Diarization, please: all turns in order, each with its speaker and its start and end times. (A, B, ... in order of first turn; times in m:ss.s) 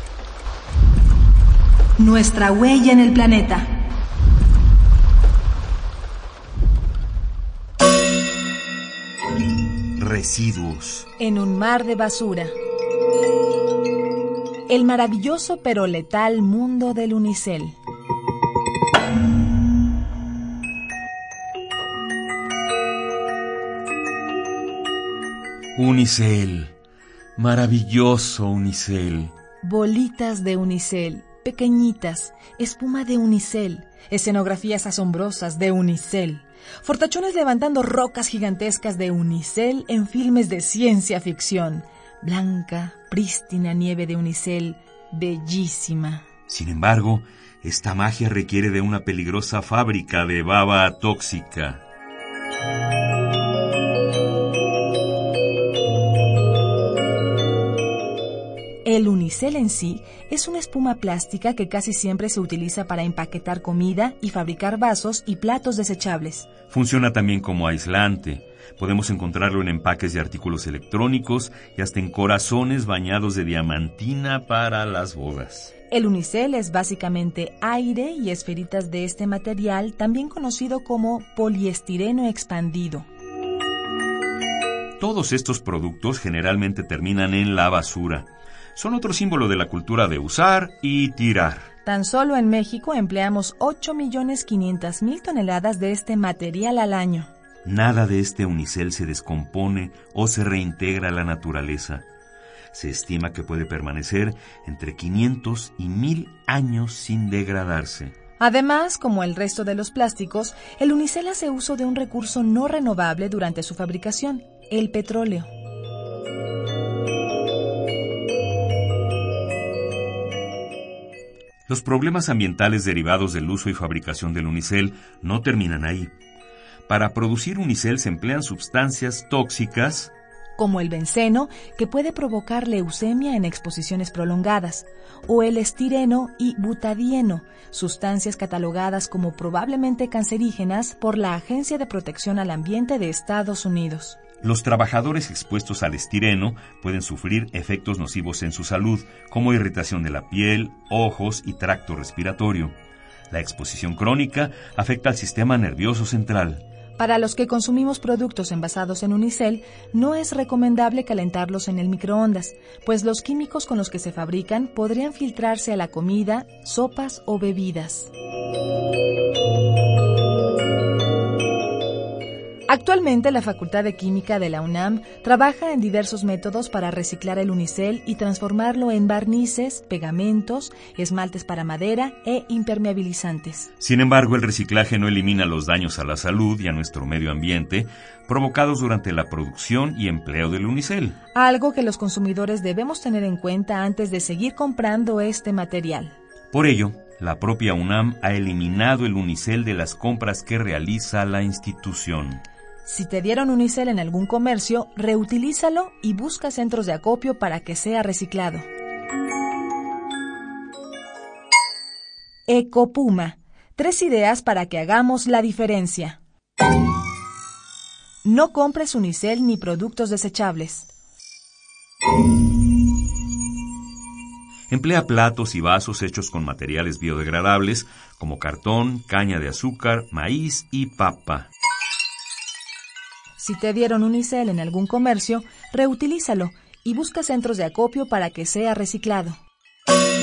0:02.0-0:03.7 A
0:10.0-0:11.1 B
0:11.2-0:12.5 A
0:14.7-0:17.8 A
0:25.8-0:26.7 B
0:27.4-0:29.3 B
0:29.6-0:46.2 A
0:46.5-0:51.8 B
0:58.8-1:06.5 A
1:06.7-1:15.7 B
1:15.9-1:23.1 A
1:25.0-1:31.7 B
1:31.8-1:37.3 A
1:37.6-1:42.0 B
1:42.7-1:48.1 B
1:48.4-1:55.5 A
2:01.7-2:06.1 B
2:06.9-2:10.1 B
2:10.6-2:24.2 A
2:24.4-2:32.7 B
2:33.3-2:36.6 B
2:37.0-2:48.1 A
2:52.7-3:03.7 A
3:03.8-3:11.2 B
3:11.3-3:16.1 A
3:16.5-3:22.4 B
3:22.8-3:28.7 A
3:32.5-3:36.2 A
3:38.2-3:40.9 A
3:44.7-3:51.5 B
3:53.4-3:59.4 A